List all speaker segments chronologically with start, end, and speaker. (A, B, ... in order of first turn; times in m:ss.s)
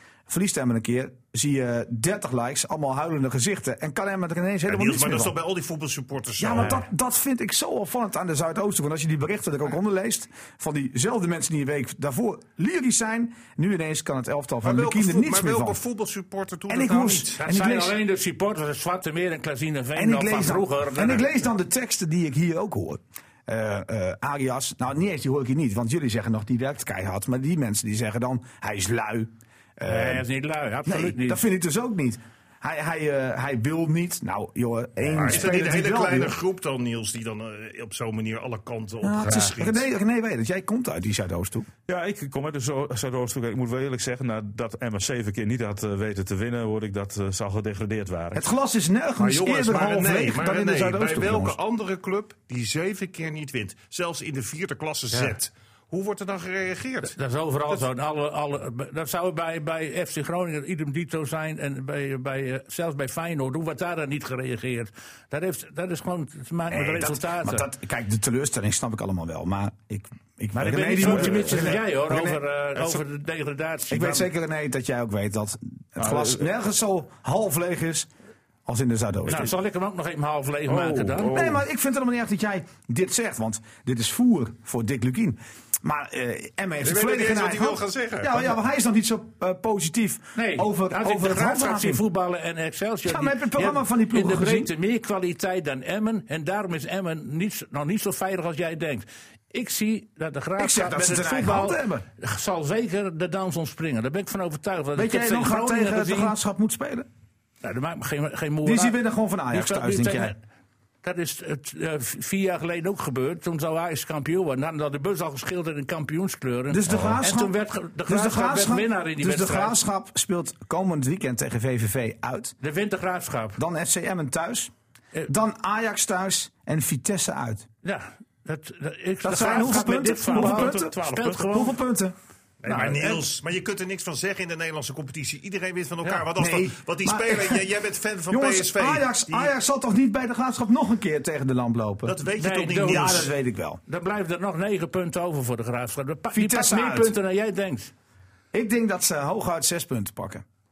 0:00.3-0:05.4 A
0:04.6-0:06.8 B
0:06.4-0:15.8 A
0:14.6-0:17.4 B
0:16.7-0:18.0 A
0:17.4-0:21.4 C
0:19.9-0:30.2 A
0:29.8-0:31.4 C
0:30.8-0:36.4 A
0:35.1-0:39.8 B
0:39.0-0:41.7 A
0:41.9-0:48.5 D
0:48.3-0:51.6 A
0:49.2-0:57.2 B
0:57.1-1:07.6 C
1:06.7-1:13.0 A
1:10.5-1:14.3 C
1:11.0-1:11.3 D
1:13.9-1:18.1 A
1:16.0-1:16.4 D
1:18.6-1:19.5 A
1:19.2-1:21.4 C
1:20.7-1:21.6 D
1:21.2-1:32.0 A
1:26.8-1:28.5 B
1:30.4-1:46.3 C
1:33.0-1:34.7 A
1:40.6-1:42.0 A
1:44.9-1:47.1 A
1:47.6-1:49.0 C
1:48.6-1:50.3 A
1:49.5-1:50.4 C
1:51.0-1:59.8 C
1:56.7-1:57.5 A
1:58.1-2:02.5 A
2:02.6-2:03.6 C
2:03.6-2:04.7 A
2:05.3-2:07.7 A
2:07.8-2:11.8 C
2:09.2-2:12.1 A
2:10.2-2:11.5 D
2:12.6-2:19.5 B
2:12.7-2:13.3 C
2:16.3-2:17.6 A
2:18.3-2:22.2 A
2:22.0-2:23.3 B
2:22.4-2:23.3 C
2:22.8-2:23.8 A
2:23.9-2:27.9 C
2:26.3-2:27.1 A
2:28.5-2:30.4 A